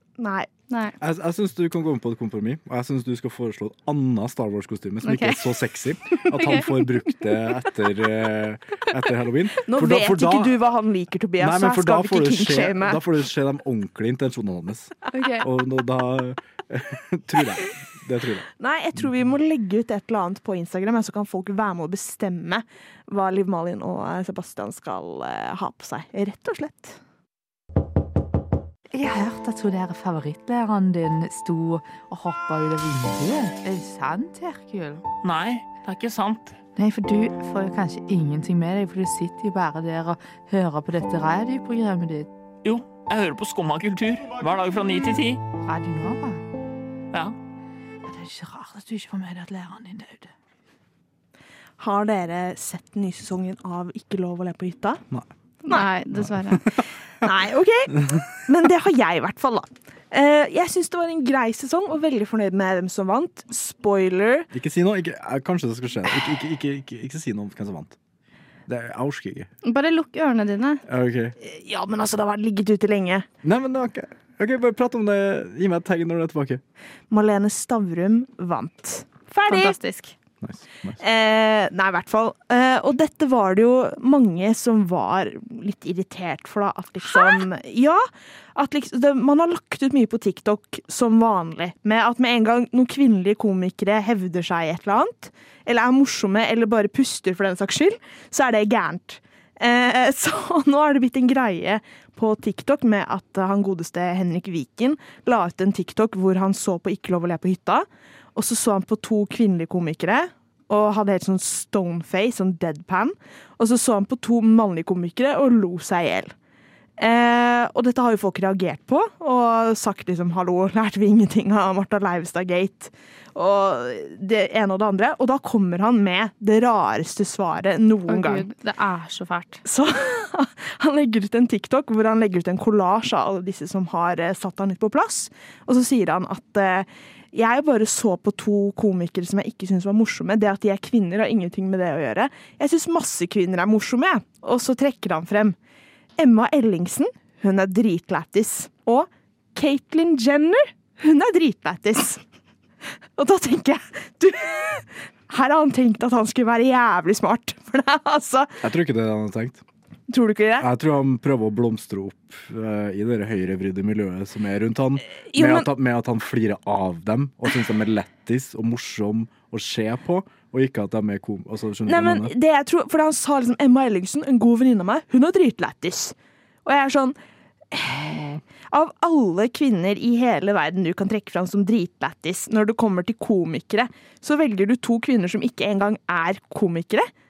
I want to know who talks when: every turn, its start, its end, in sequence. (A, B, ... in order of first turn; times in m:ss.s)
0:00.2-0:00.5 A
0:01.0-0:10.6 B
0:05.0-0:05.4 C
0:06.2-0:06.7 C
0:09.6-0:13.0 A
0:11.4-0:18.5 B
0:15.1-0:15.4 C
0:18.6-0:27.0 A
0:28.9-0:35.0 D
0:35.2-0:36.6 E
0:36.8-0:42.3 D
0:42.6-0:45.4 E
0:45.6-0:46.4 D
0:48.0-0:50.3 D
0:51.8-0:55.0 A
0:55.6-0:56.6 C
0:56.2-0:56.8 B
0:57.2-1:04.5 A
1:04.5-1:08.0 B
1:08.7-1:09.5 B
1:09.6-1:10.8 C
1:10.9-1:11.4 B
1:11.4-1:13.3 A
1:13.4-1:16.6 B
1:17.1-1:19.8 A
1:19.4-1:20.1 C
1:20.4-1:21.0 B
1:21.0-1:28.0 A
1:27.1-1:27.4 C
1:28.5-1:56.3 A
1:57.0-2:08.5 A
2:08.1-2:09.6 C
2:09.6-2:25.6 A
2:26.2-2:32.2 A
2:33.2-2:38.6 A
2:38.6-2:39.6 B
2:40.1-2:40.7 A
2:40.6-2:52.3 B
2:45.2-2:45.7 A
2:51.8-2:57.2 A
2:57.7-3:07.1 A